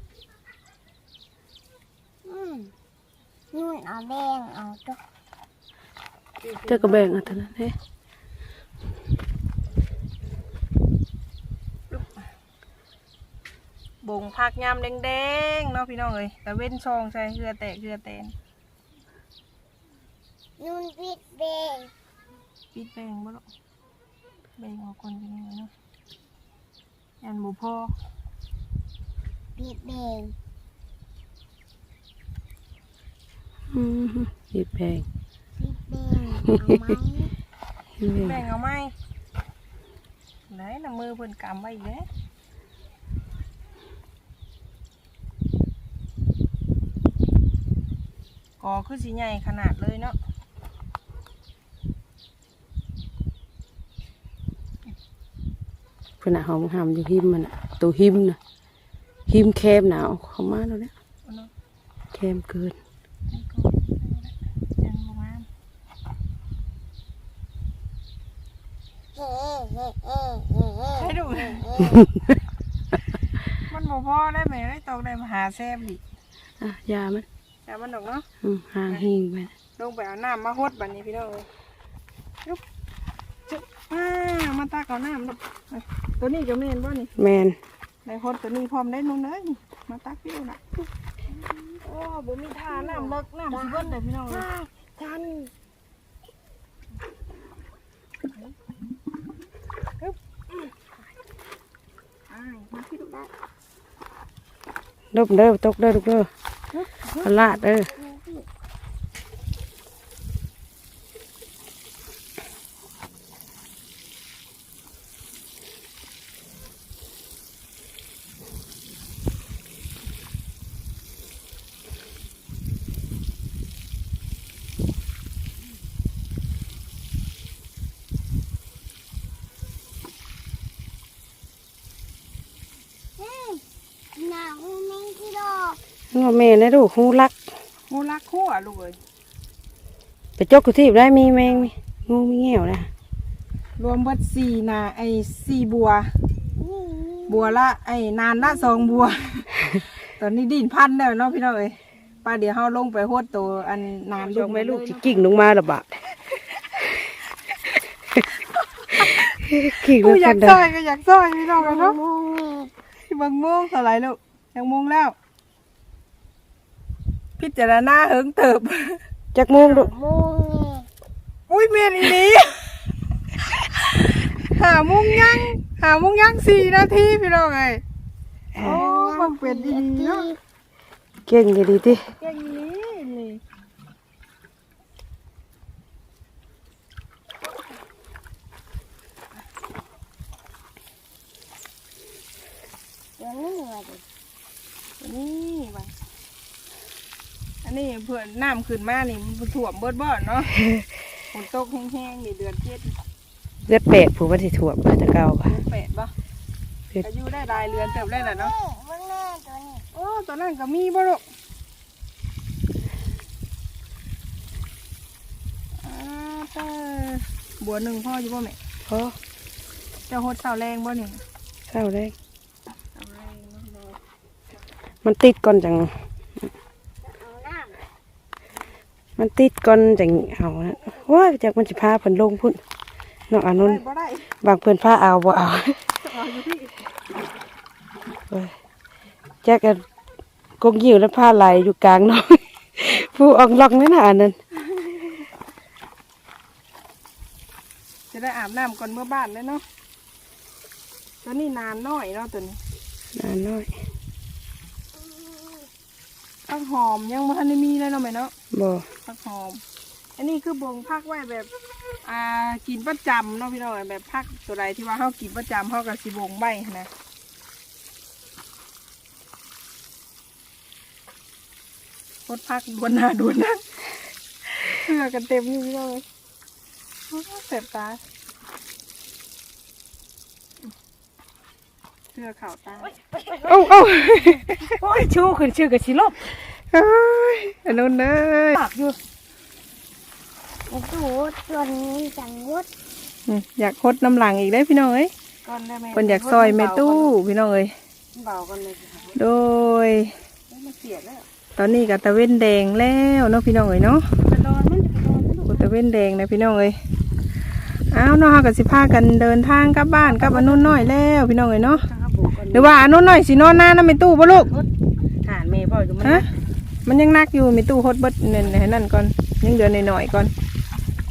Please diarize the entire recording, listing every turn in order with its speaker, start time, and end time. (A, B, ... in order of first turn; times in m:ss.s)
0:02.2-0:02.7 A
0:03.5-0:05.0 A
0:06.4-0:07.7 B
0:06.5-0:07.2 C
0:14.0-0:18.3 C
0:20.6-0:21.9 A
0:22.7-0:23.4 C
0:24.6-0:25.7 C
0:27.2-0:27.9 C
0:29.6-0:30.3 A
0:33.7-0:35.0 B
0:35.6-0:37.3 A
0:36.5-0:36.9 B
0:38.0-0:38.4 B
0:38.2-0:38.9 C
0:40.5-0:42.1 C
0:48.6-0:50.2 C
0:56.2-0:58.4 B
0:59.3-1:00.9 B
1:02.1-1:02.8 B
1:03.3-1:05.4 C
1:09.1-1:12.0 A
1:11.0-1:11.7 C
1:11.9-1:12.2 B
1:13.7-1:16.0 C
1:16.6-1:17.2 B
1:17.7-1:18.2 C
1:18.4-1:19.5 B
1:19.8-1:21.5 C
1:23.8-1:27.1 C
1:27.2-1:27.6 B
1:28.0-1:30.6 C
1:32.1-1:34.5 C
1:32.7-1:34.0 A
1:34.3-1:35.5 B
1:42.3-1:43.2 C
1:45.1-1:46.3 B
1:47.2-1:47.9 B
1:47.8-1:48.4 A
2:13.2-2:13.6 A
2:14.1-2:15.8 A
2:16.1-2:17.4 B
2:17.9-2:19.0 C
2:20.4-2:22.9 B
2:23.8-2:26.1 C
2:26.6-2:27.5 A
2:27.3-2:29.5 C
2:30.2-2:35.3 C
2:34.2-2:35.9 B
2:38.9-2:42.0 C
2:39.0-2:40.6 B
2:41.6-2:42.7 A
2:43.1-2:45.1 C
2:47.4-2:49.0 C
2:49.3-2:49.9 B
2:49.6-2:50.9 A
2:51.5-2:52.8 C
2:53.7-2:57.8 C
2:58.5-2:58.8 B
2:58.6-3:00.3 C
2:58.6-3:00.4 A
3:01.3-3:02.0 B
3:02.2-3:03.4 C
3:13.2-3:14.0 A
3:15.0-3:15.9 C
3:17.6-3:20.6 C
3:21.3-3:22.9 C
3:23.6-3:25.5 B
3:25.5-3:26.1 C
3:27.0-3:28.5 C
3:28.0-3:29.8 A
3:29.9-3:31.2 C
3:35.8-3:38.6 C
3:38.9-3:39.2 B
3:40.1-3:41.2 C
3:41.7-3:42.1 B
3:43.0-3:44.0 C
3:45.0-3:45.9 B
3:47.0-3:47.8 A
3:49.2-3:52.6 B
3:53.3-3:53.8 B
3:53.5-3:54.3 C
3:54.4-3:55.8 B
3:56.0-3:56.8 C
3:59.4-3:59.8 B
4:00.6-4:04.4 B
4:08.1-4:09.6 C
4:11.2-4:12.6 C
4:13.1-4:13.7 B
4:16.5-4:18.3 C
4:18.5-4:18.8 B
4:19.0-4:19.6 C
4:20.2-4:21.5 C
4:22.0-4:26.9 C
4:32.3-4:33.6 C
4:34.5-4:36.0 C
4:37.1-4:38.0 C
4:42.1-4:42.9 C
4:43.4-4:46.3 B
4:43.4-4:44.8 C
4:46.7-4:48.6 C
4:48.6-4:49.0 B
4:50.7-4:52.7 A
4:53.3-4:55.1 C
4:55.4-4:57.1 B
4:55.9-4:57.7 C
4:58.1-4:59.2 B
4:59.1-5:00.1 C
5:00.5-5:01.2 B
5:01.6-5:04.0 C
5:04.2-5:05.7 B
5:05.5-5:06.8 C
5:07.9-5:11.8 C
5:10.0-5:10.9 B
5:11.6-5:12.8 B
5:12.5-5:14.5 C
5:14.4-5:14.7 B
5:15.2-5:16.3 B
5:16.8-5:20.3 C